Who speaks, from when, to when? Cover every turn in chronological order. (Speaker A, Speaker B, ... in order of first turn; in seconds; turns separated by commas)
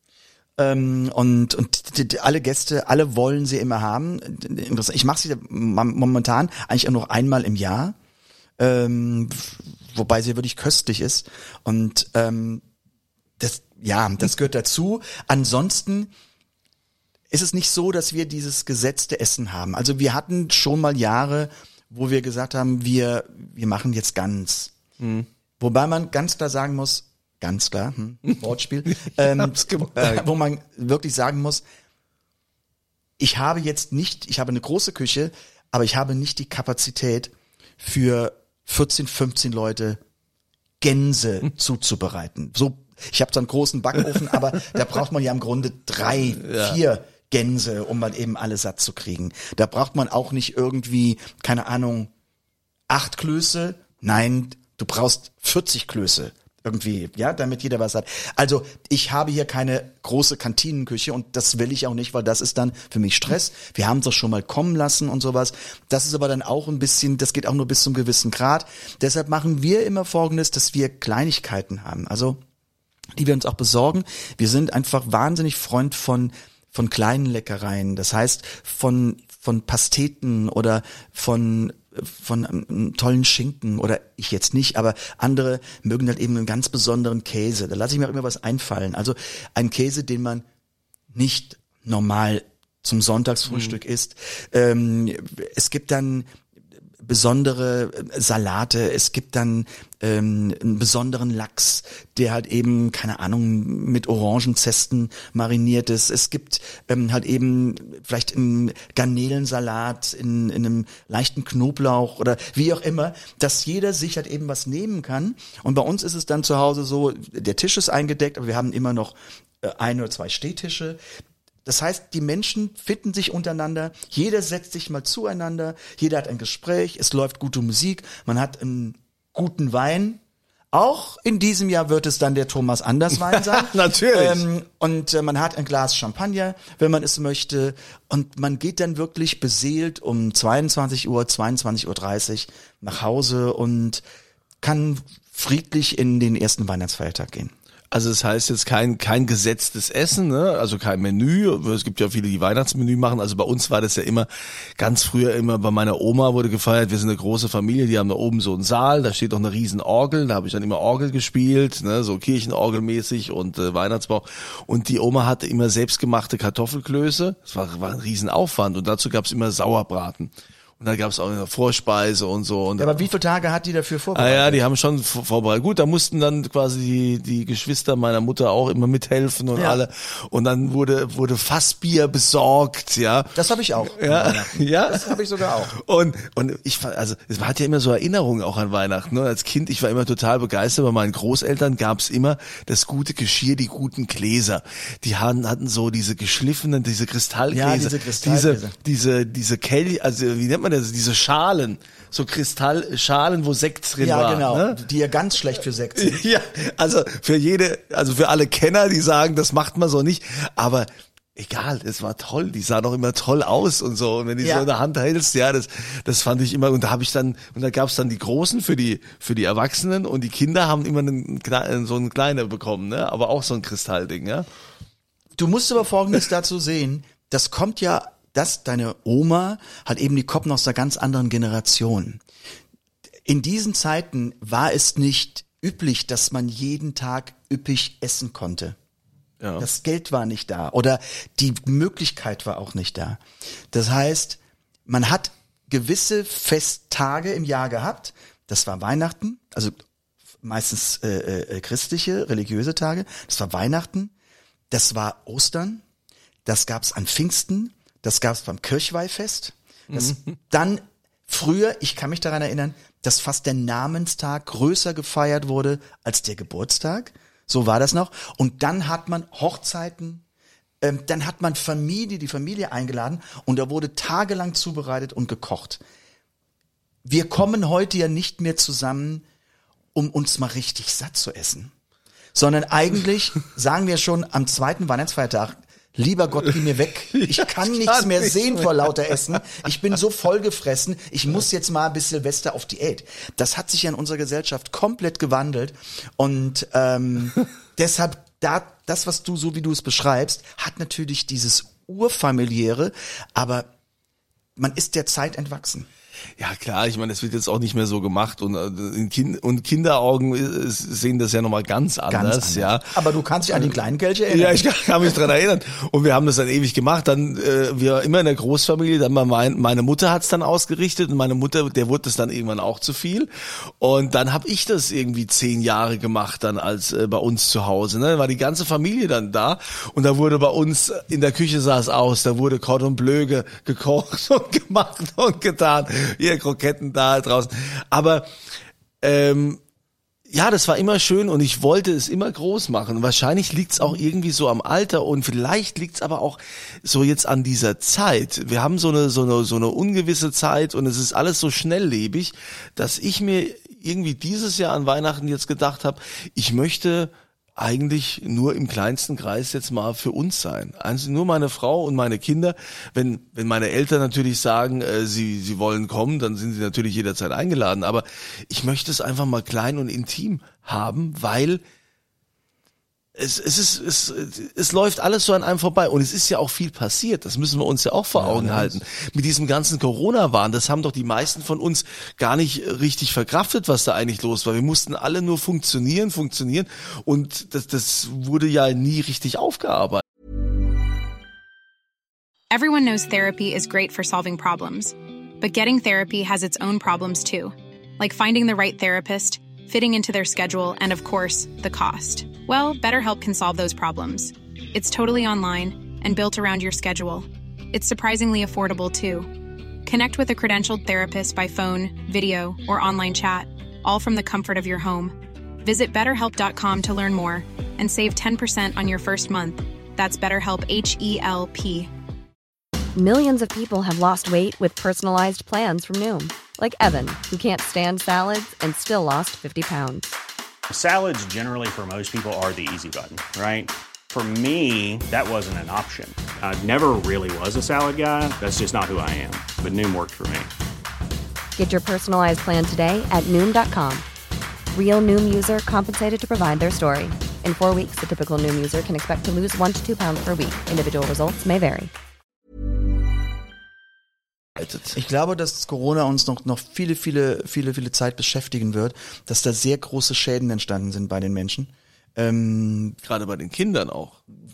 Speaker A: 0.6-8.0, Speaker A: 8.6-12.6, Speaker A: 13.4-16.1, Speaker A: 17.3-24.8, Speaker B: 25.0-25.3, Speaker A: 25.6-31.6, Speaker B: 29.0-30.2, Speaker A: 33.2-40.0, Speaker A: 40.8-52.1, Speaker B: 46.4-46.8, Speaker A: 52.9-72.4, Speaker A: 73.2-90.5, Speaker A: 91.1-96.3, Speaker A: 97.0-121.0, Speaker A: 121.6-130.2, Speaker A: 130.7-144.0, Speaker B: 133.2-134.4, Speaker A: 144.6-147.5, Speaker B: 147.9-173.0, Speaker A: 172.8-174.6, Speaker B: 174.1-183.4, Speaker A: 179.6-179.8, Speaker A: 183.3-185.8, Speaker B: 183.9-185.2, Speaker B: 185.8-204.8, Speaker A: 197.5-198.8, Speaker A: 204.0-206.2, Speaker B: 205.9-224.4, Speaker A: 214.4-214.7, Speaker A: 225.4-232.2, Speaker A: 233.3-238.8, Speaker B: 239.4-239.7, Speaker A: 239.6-249.8, Speaker A: 250.4-254.1, Speaker A: 254.7-255.8, Speaker A: 256.4-270.2, Speaker B: 259.9-260.4, Speaker A: 270.8-275.8, Speaker A: 277.1-279.2, Speaker A: 279.9-281.7, Speaker A: 282.3-303.7, Speaker B: 287.2-288.9, Speaker A: 304.6-305.9, Speaker B: 306.4-312.9, Speaker A: 312.1-314.6, Speaker B: 314.3-338.3, Speaker B: 339.0-339.6, Speaker B: 340.3-371.6, Speaker B: 373.1-390.0, Speaker A: 378.1-378.8, Speaker C: 392.5-409.3, Speaker C: 409.9-421.9, Speaker D: 422.9-430.1, Speaker E: 430.7-440.5, Speaker D: 441.6-444.1, Speaker D: 444.7-451.9, Speaker B: 454.6-454.9, Speaker A: 454.9-462.9, Speaker B: 463.1-464.2